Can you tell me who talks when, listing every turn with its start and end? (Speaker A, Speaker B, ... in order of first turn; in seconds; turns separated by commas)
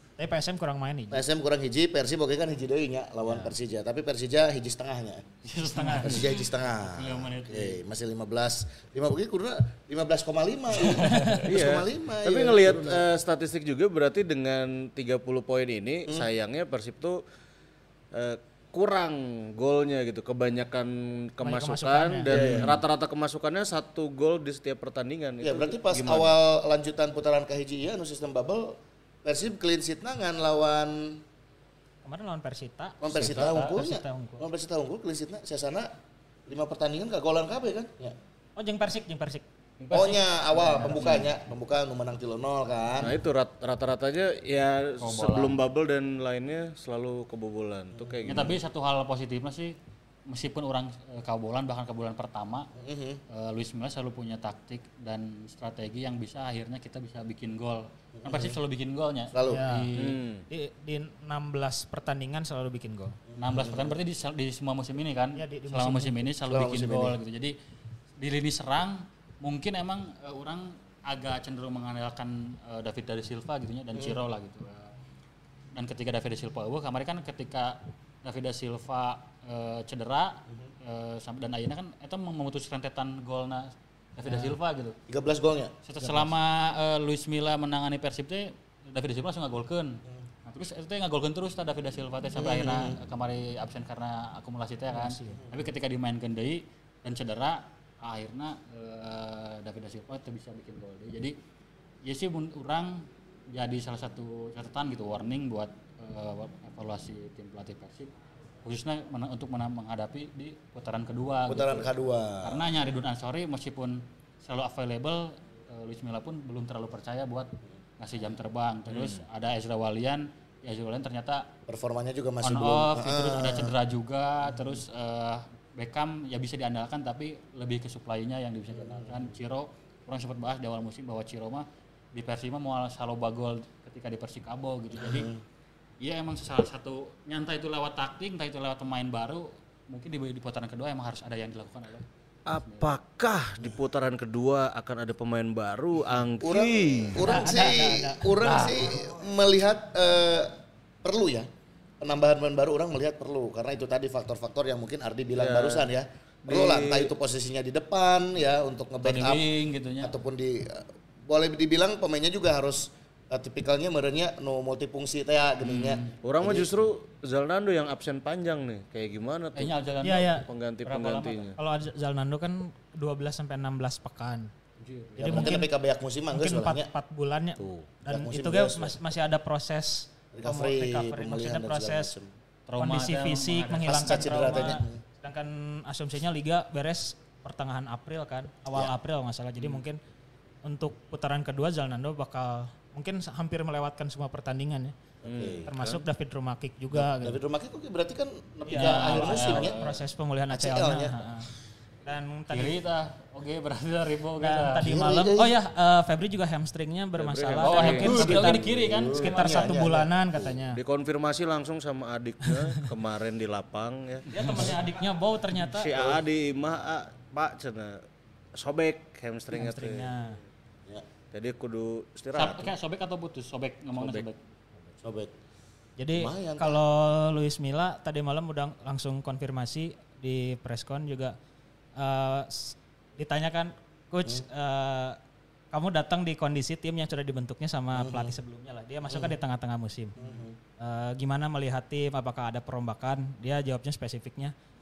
Speaker A: 0.2-1.2, Speaker B: 1.1-5.3, Speaker C: 5.4-7.8, Speaker A: 5.8-6.1, Speaker B: 6.0-13.1, Speaker C: 11.0-11.4, Speaker A: 11.1-11.4, Speaker D: 11.4-17.2, Speaker D: 18.1-26.3, Speaker A: 21.4-22.7, Speaker B: 22.3-22.8, Speaker B: 25.4-31.2, Speaker A: 32.0-34.4, Speaker B: 33.0-35.9, Speaker C: 33.0-33.8, Speaker B: 36.5-38.2, Speaker A: 38.6-39.4, Speaker C: 39.8-41.3, Speaker B: 39.9-43.2, Speaker D: 43.0-48.6, Speaker C: 45.0-45.6, Speaker B: 47.9-48.6, Speaker C: 48.2-49.7, Speaker C: 50.3-52.7, Speaker B: 52.8-53.2, Speaker C: 53.3-60.2, Speaker B: 58.2-58.6, Speaker B: 59.3-59.6, Speaker A: 59.5-59.9, Speaker D: 60.0-60.4, Speaker A: 60.5-63.2, Speaker B: 63.3-64.0, Speaker C: 63.4-67.5, Speaker A: 65.3-66.1, Speaker B: 66.5-67.2, Speaker C: 68.2-74.9, Speaker C: 75.7-85.0, Speaker A: 84.2-84.5, Speaker B: 85.1-85.7, Speaker C: 85.8-101.3, Speaker A: 86.0-86.3, Speaker B: 92.3-93.0, Speaker A: 94.9-95.4, Speaker B: 95.3-95.6, Speaker C: 102.0-108.1, Speaker C: 108.6-111.9, Speaker B: 111.5-112.7, Speaker C: 112.4-121.5, Speaker D: 118.9-119.2, Speaker B: 121.7-123.7, Speaker C: 122.4-135.3, Speaker B: 128.7-129.3, Speaker B: 134.9-135.4, Speaker C: 136.0-142.9, Speaker D: 142.4-147.4, Speaker B: 146.4-151.5, Speaker A: 147.2-148.8, Speaker B: 152.0-159.5, Speaker D: 155.3-155.8, Speaker D: 156.5-157.1, Speaker C: 159.0-160.1, Speaker B: 160.0-166.9, Speaker C: 165.6-166.1, Speaker D: 165.9-169.7, Speaker C: 169.5-171.5, Speaker A: 170.0-170.5, Speaker D: 170.5-171.6, Speaker A: 171.6-174.5, Speaker C: 174.8-175.6, Speaker B: 175.2-176.9, Speaker A: 175.2-175.7, Speaker A: 176.3-182.1, Speaker D: 177.6-177.9, Speaker B: 178.1-179.0, Speaker B: 180.3-182.3, Speaker C: 182.7-184.8, Speaker A: 182.8-190.0, Speaker B: 183.8-185.0, Speaker A: 190.6-194.9, Speaker B: 195.2-195.7, Speaker D: 195.2-196.0, Speaker A: 195.7-197.4, Speaker B: 196.9-199.8, Speaker A: 198.6-201.5, Speaker C: 198.7-200.0, Speaker B: 200.5-201.2, Speaker A: 202.1-202.8, Speaker C: 202.5-204.9, Speaker A: 204.4-210.8, Speaker B: 204.8-205.5, Speaker D: 207.2-208.1, Speaker C: 207.6-209.7, Speaker B: 208.0-210.6, Speaker D: 210.7-214.6, Speaker A: 214.3-215.9, Speaker D: 215.7-218.0, Speaker D: 218.5-220.1, Speaker A: 219.5-220.4, Speaker D: 221.3-222.7, Speaker C: 222.3-224.4, Speaker D: 224.0-224.3, Speaker B: 225.0-225.3, Speaker A: 226.0-231.3, Speaker B: 226.1-226.8, Speaker A: 232.0-235.2, Speaker A: 235.7-240.2, Speaker B: 237.9-238.3, Speaker B: 239.1-239.3, Speaker B: 240.2-240.6, Speaker A: 240.8-244.5